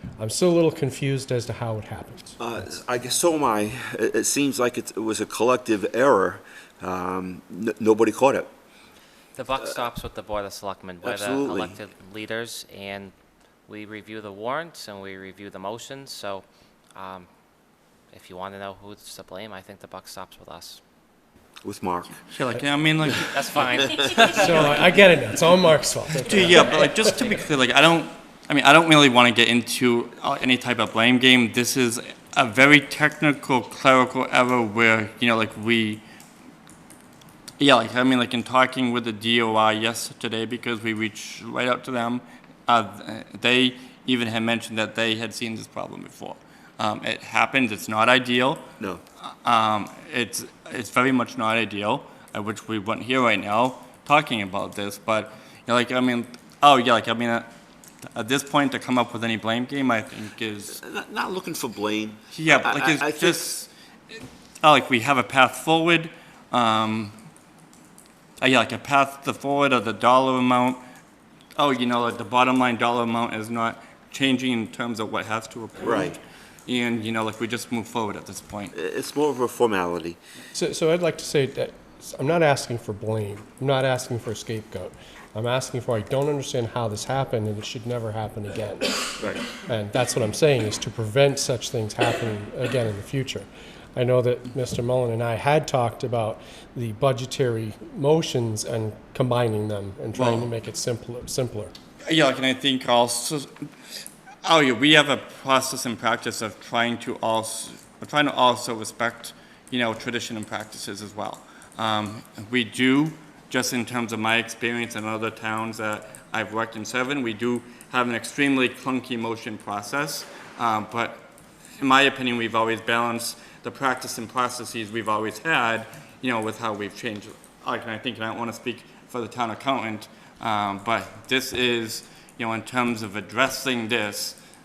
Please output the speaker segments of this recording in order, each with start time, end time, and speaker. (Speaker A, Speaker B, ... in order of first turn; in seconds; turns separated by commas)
Speaker A: 0.2-2.4, Speaker B: 2.4-8.5, Speaker C: 9.3-13.1, Speaker B: 11.0-11.8, Speaker C: 13.7-17.3, Speaker C: 18.1-20.8, Speaker B: 21.6-22.2, Speaker D: 22.3-23.9, Speaker C: 23.2-24.9, Speaker A: 24.3-27.1, Speaker D: 24.5-24.8, Speaker D: 26.2-36.0, Speaker D: 37.6-48.7, Speaker D: 49.2-57.5, Speaker D: 58.1-60.8, Speaker B: 60.7-63.5, Speaker D: 62.3-67.1, Speaker D: 68.4-70.8, Speaker D: 71.6-78.7, Speaker B: 75.8-76.2, Speaker B: 78.7-80.2, Speaker A: 80.5-101.7, Speaker D: 100.2-100.5, Speaker D: 102.1-103.5, Speaker D: 104.4-121.2, Speaker D: 121.8-134.4